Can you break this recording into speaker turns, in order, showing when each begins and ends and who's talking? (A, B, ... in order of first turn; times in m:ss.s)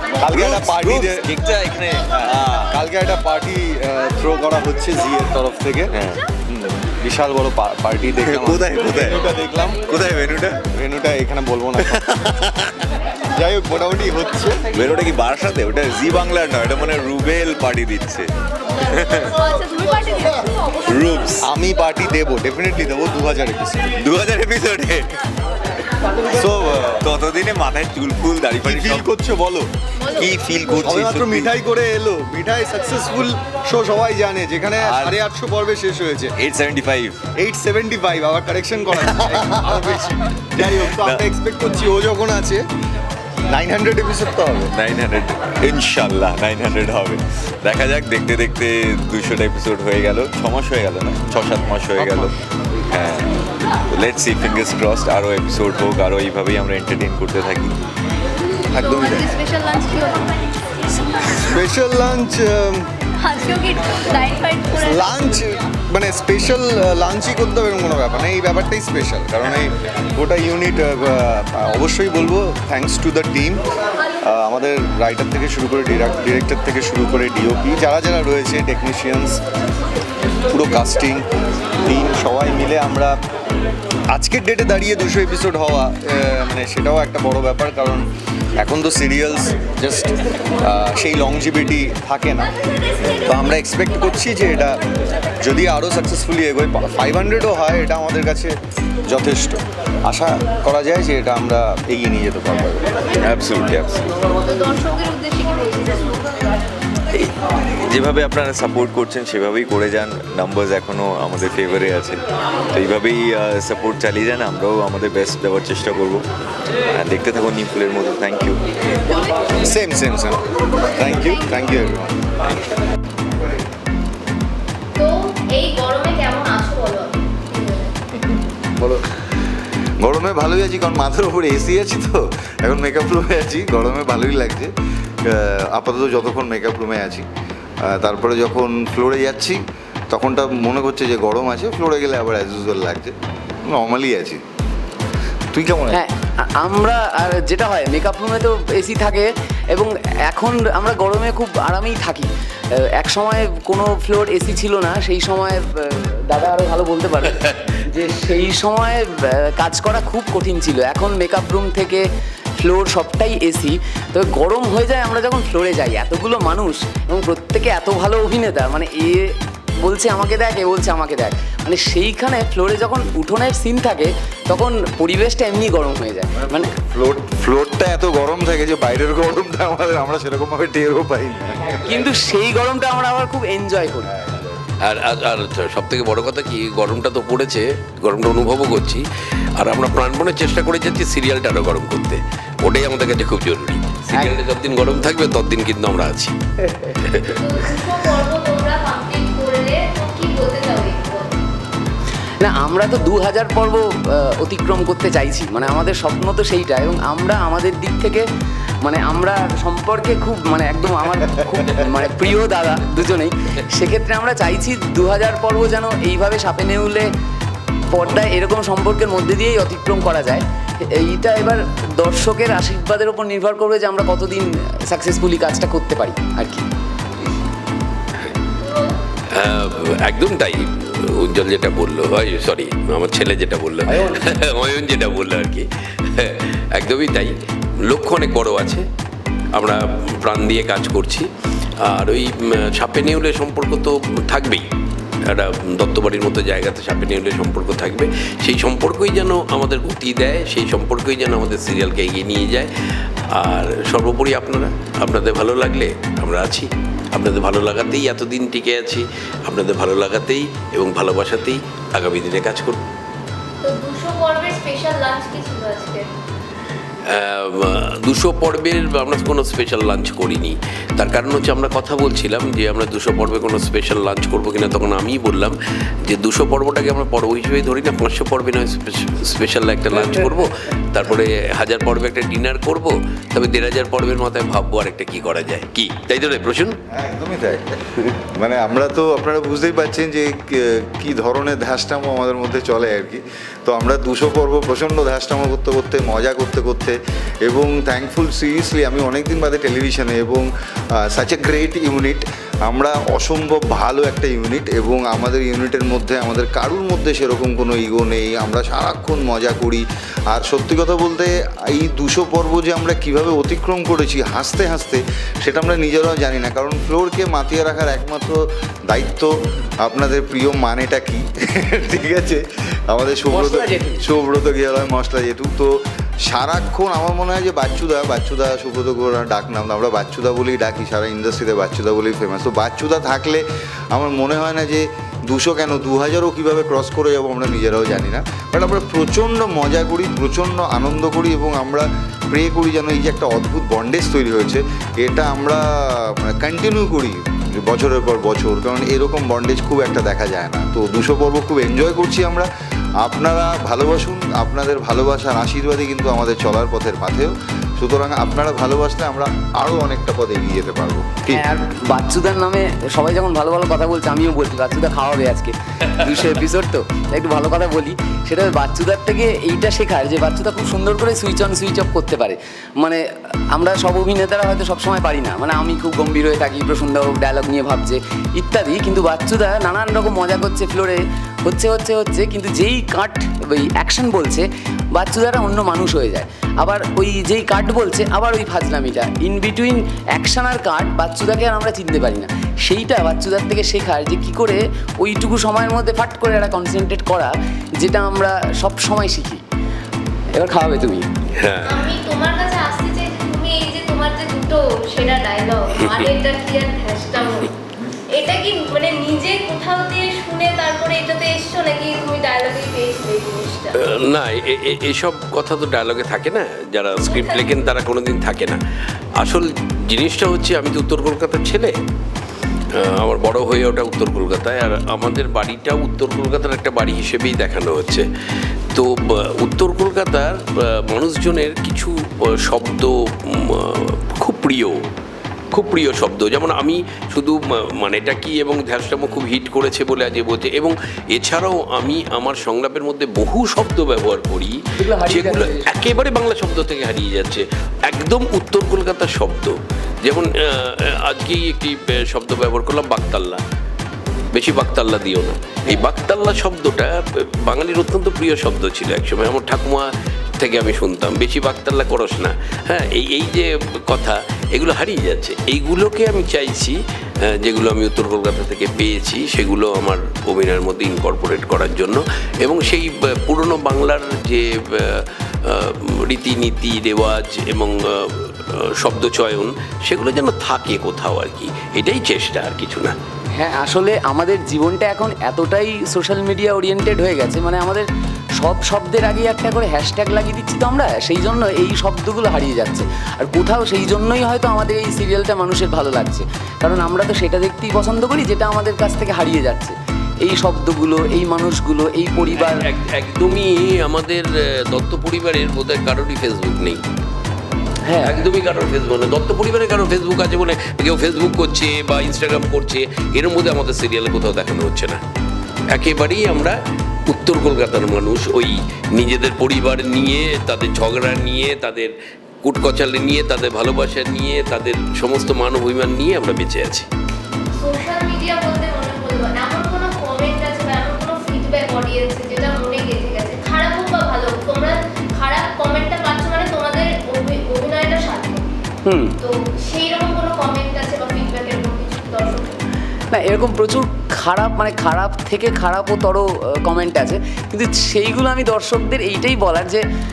0:00.2-0:01.4 A
0:00.3-0:02.7 B
0:02.1-0:06.0 A
0:06.9-0:12.2 A
0:08.2-0:09.1 B
0:13.4-0:14.6 A
0:14.8-0:18.3 B
0:19.1-0:20.5 C
0:20.9-0:21.4 B
0:21.4-0:24.0 A
0:24.0-0:25.1 B
0:26.4-0:29.1 B
0:26.4-0:27.1 A
0:28.6-0:29.7 A
0:30.0-0:30.5 C
0:30.2-0:31.5 B
0:30.6-0:36.4 A
0:34.8-0:35.1 B
0:36.4-0:37.2 B
0:37.3-0:42.6 A
0:43.5-0:44.8 A
0:44.8-0:52.3 B
0:52.9-0:53.3 B
0:53.9-0:57.7 B
0:58.7-1:00.3 C
1:01.5-1:02.9 A
1:03.2-1:05.2 C
1:04.8-1:13.6 A
1:14.2-1:19.4 A
1:20.5-1:21.2 A
1:21.9-1:23.2 A
1:24.1-1:28.1 A
1:28.6-1:32.5 A
1:33.2-1:34.8 A
1:35.4-1:38.6 A
1:39.1-1:42.9 A
1:43.2-1:44.1 B
1:44.4-1:46.2 C
1:47.8-1:52.2 B
1:52.7-1:56.2 B
1:56.9-1:58.6 B
1:59.6-2:00.4 A
2:01.0-2:02.1 A
2:05.0-2:07.9 C
2:10.0-2:14.7 D
2:15.3-2:17.3 D
2:17.9-2:19.6 D
2:20.1-2:23.2 D
2:23.7-2:24.4 D
2:25.5-2:26.0 D
2:25.9-2:32.3 E
2:33.0-2:42.0 E
2:42.6-2:56.7 E
2:56.5-3:02.1 D
3:01.8-3:04.1 E
3:04.8-3:09.0 F
3:09.6-3:16.4 F
3:17.0-3:17.3 F
3:17.4-3:21.4 C
3:22.4-3:28.2 E
3:28.8-3:37.1 E
3:37.9-3:40.4 E
3:41.0-3:46.6 E
3:48.6-3:48.9 C
3:49.4-3:57.3 F
3:53.9-3:54.2 E
3:57.8-3:58.8 F
3:59.5-4:01.3 F
4:01.8-4:04.7 F
4:05.3-4:12.7 F
4:13.4-4:22.8 F
4:23.6-4:26.1 C
4:27.1-4:35.6 F
4:36.1-4:46.8 F
4:39.9-4:40.4 E
4:46.9-5:00.5 D
5:01.1-5:25.7 D
5:23.3-5:24.0 E
5:26.2-5:52.5 D
5:53.0-6:01.4 D
6:01.3-6:39.4 E
6:40.3-6:41.1 E
6:41.4-6:41.9 F
6:41.6-6:47.5 C
6:45.8-6:46.1 F
6:48.1-6:53.8 C
6:53.9-6:58.6 F
6:57.1-6:57.6 C
6:59.2-7:01.8 F
7:02.8-7:08.1 F
7:08.7-7:14.8 F
7:15.5-7:33.4 F
7:24.8-7:25.7 E
7:34.3-7:46.8 F
7:47.4-8:03.0 F
8:03.4-8:07.9 E
8:08.4-8:22.6 E
8:22.4-8:26.8 F
8:27.9-8:28.2 E
8:28.0-8:35.0 F
8:35.7-8:36.6 F
8:37.1-8:41.9 F
8:42.4-8:46.9 F
8:47.6-8:58.5 C
8:58.9-8:59.2 E
8:59.2-9:02.6 C
9:03.1-9:09.8 E